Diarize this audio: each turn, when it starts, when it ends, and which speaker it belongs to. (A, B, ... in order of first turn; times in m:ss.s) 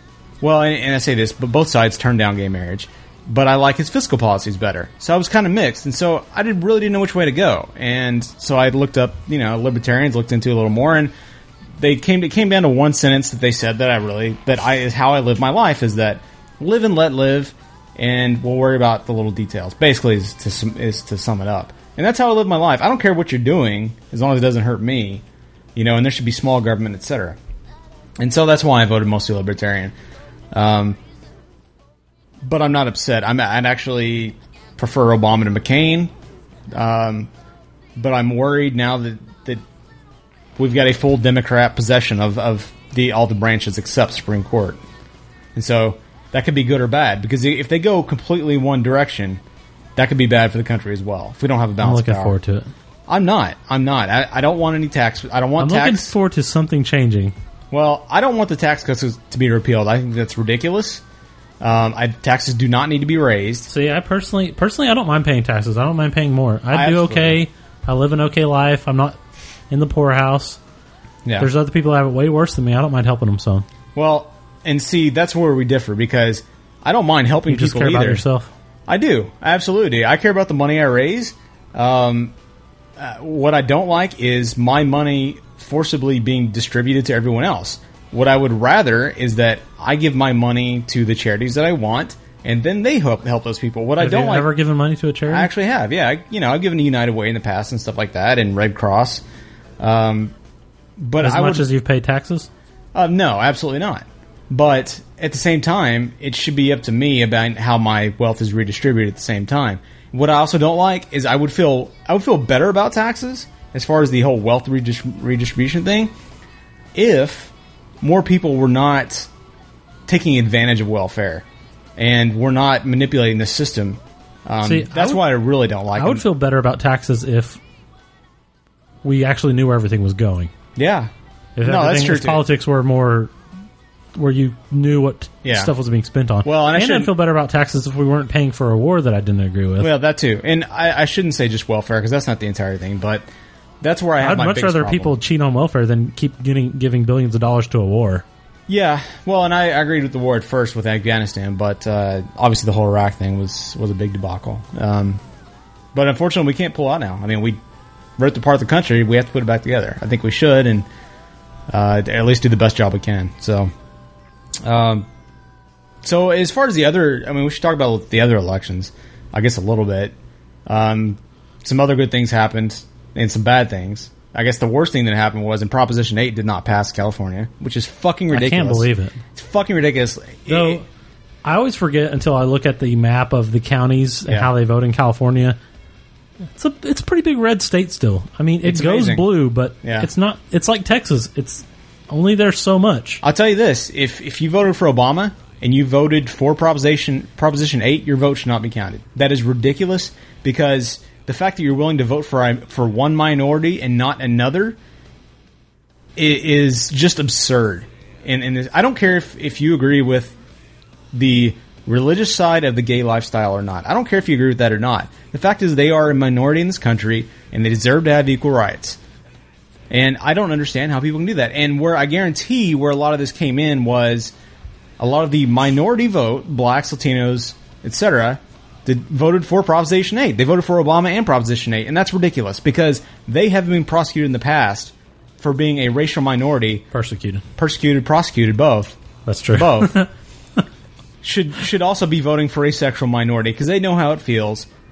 0:00.4-0:11.1 A
0:11.8-0:25.2 A
0:25.8-0:27.4 A
0:28.2-0:29.9 A
0:30.5-0:31.0 A
0:32.4-0:36.1 A
0:36.7-0:37.3 A
0:38.0-0:39.6 A
0:40.6-0:44.8 A
0:45.6-0:49.4 A
0:50.0-0:52.4 A
0:51.8-0:52.7 B
0:53.1-0:56.1 A
0:55.6-0:57.4 B
0:57.7-1:01.0 A
1:01.6-1:03.7 A
1:03.7-1:09.2 B
1:06.7-1:07.4 A
1:09.7-1:10.6 B
1:11.2-1:11.5 A
1:11.4-1:13.6 B
1:14.0-1:18.2 A
1:17.5-1:18.5 B
1:18.9-1:22.3 A
1:23.0-1:34.5 A
1:34.0-1:35.5 B
1:35.3-1:39.2 A
1:39.8-1:40.3 A
1:41.0-1:41.7 A
1:41.2-1:42.5 B
1:42.9-1:56.1 A
1:56.9-1:59.3 A
2:00.1-2:01.4 A
2:02.0-2:06.3 A
2:04.6-2:05.2 B
2:06.0-2:07.6 B
2:09.0-2:10.5 B
2:10.8-2:11.1 A
2:11.6-2:13.3 B
2:11.6-2:12.4 A
2:14.2-2:19.9 B
2:15.4-2:15.7 A
2:16.4-2:17.1 A
2:19.8-2:23.3 A
2:23.8-2:25.2 A
2:24.2-2:28.2 B
2:28.7-2:35.2 A
2:35.9-2:37.6 A
2:38.2-2:40.9 A
2:41.7-2:43.7 A
2:44.6-2:45.1 A
2:46.0-2:50.2 A
2:50.7-3:00.8 A
2:58.3-2:59.2 B
3:00.5-3:00.8 B
3:01.4-3:05.6 B
3:06.6-3:13.2 B
3:08.6-3:10.1 A
3:13.2-3:24.8 A
3:26.2-3:30.3 A
3:31.1-3:39.0 A
3:39.9-3:44.3 A
3:45.0-3:56.9 A
3:56.9-3:57.4 B
3:57.6-3:59.0 A
3:59.3-4:00.1 B
3:59.5-4:00.0 A
4:01.2-4:04.7 A